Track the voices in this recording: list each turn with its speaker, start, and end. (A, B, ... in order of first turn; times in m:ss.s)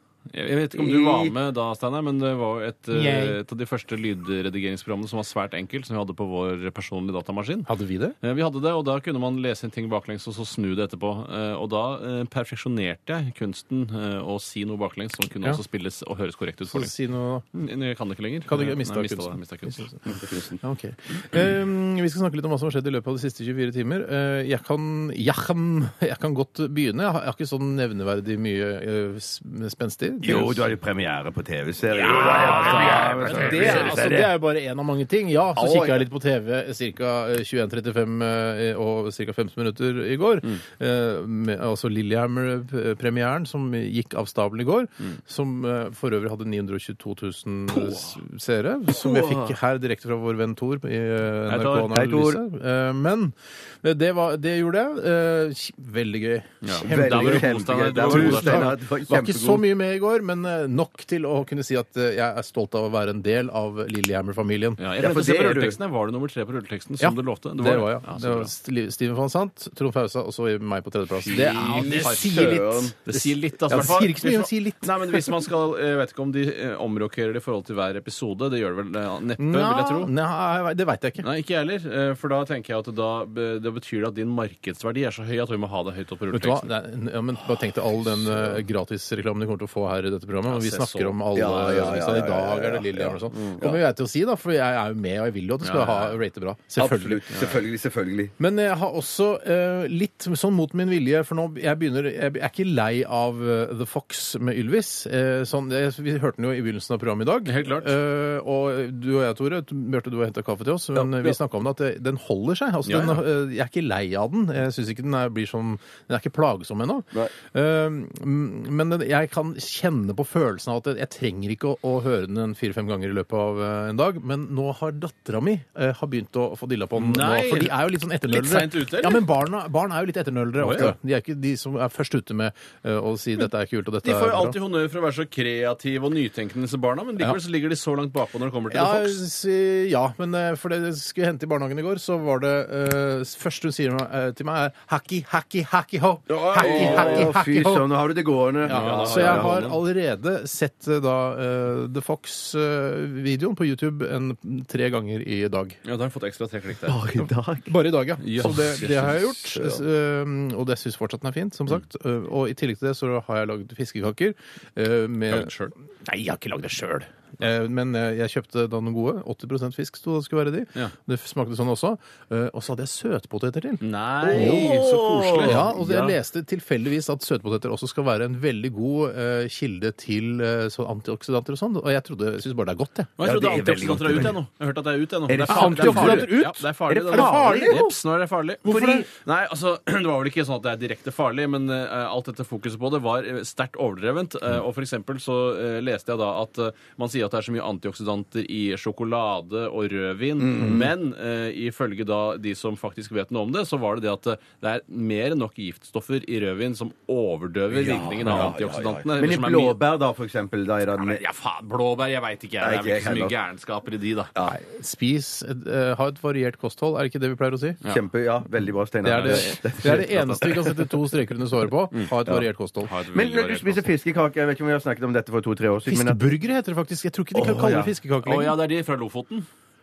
0:00.3-0:07.7 A
0:00.8-0:01.4 B
0:02.9-0:03.4 C
0:07.7-0:08.2 C
0:08.2-0:16.9 A
0:16.7-0:17.5 C
0:17.5-0:20.5 A
0:18.5-0:30.7 C
0:30.2-0:34.3 B
0:32.0-1:04.8 C
0:32.1-0:34.0 A
0:35.6-0:36.0 B
0:47.8-0:48.2 A
0:49.0-0:49.6 B
0:51.5-0:52.0 A
0:51.9-0:52.4 B
0:56.6-0:58.7 A
0:56.9-0:59.6 B
1:04.8-1:08.5 A
1:05.0-1:05.8 B
1:07.0-1:15.5 C
1:11.2-1:20.1 A
1:11.4-1:13.0 B
1:19.4-1:21.3 C
1:21.2-1:26.7 A
1:26.3-1:37.3 C
1:30.5-1:31.2 A
1:31.4-1:33.8 B
1:35.6-1:36.2 A
1:36.8-1:38.3 B
1:38.4-2:14.6 C
1:47.4-1:48.0 A
1:51.0-1:51.3 B
1:52.9-1:53.2 A
2:07.0-2:07.8 A
2:08.3-2:09.2 A
2:10.6-2:10.9 A
2:14.0-2:19.2 A
2:18.7-2:27.9 C
2:26.3-2:29.5 B
2:26.5-2:27.3 A
2:28.6-2:35.8 C
2:28.7-2:29.8 A
2:35.8-2:37.0 A
2:36.9-2:37.7 B
2:37.7-3:03.1 C
2:38.2-2:39.2 A
2:39.6-2:39.8 B
2:45.3-2:45.7 A
2:53.8-2:56.1 A
2:54.2-2:55.9 B
3:03.2-3:29.8 A
3:03.2-3:04.4 B
3:05.3-3:07.8 B
3:05.5-3:08.0 C
3:08.6-3:09.1 C
3:08.7-3:09.1 B
3:20.4-3:20.9 B
3:27.7-3:31.2 B
3:31.0-3:34.3 A
3:32.6-3:33.4 B
3:34.5-3:37.8 C
3:37.9-3:40.9 B
3:39.0-3:42.9 C
3:39.1-3:40.3 A
3:42.8-3:43.9 A
3:43.1-3:46.2 B
3:45.9-3:48.6 C
3:47.4-3:47.9 B
3:48.2-3:49.5 A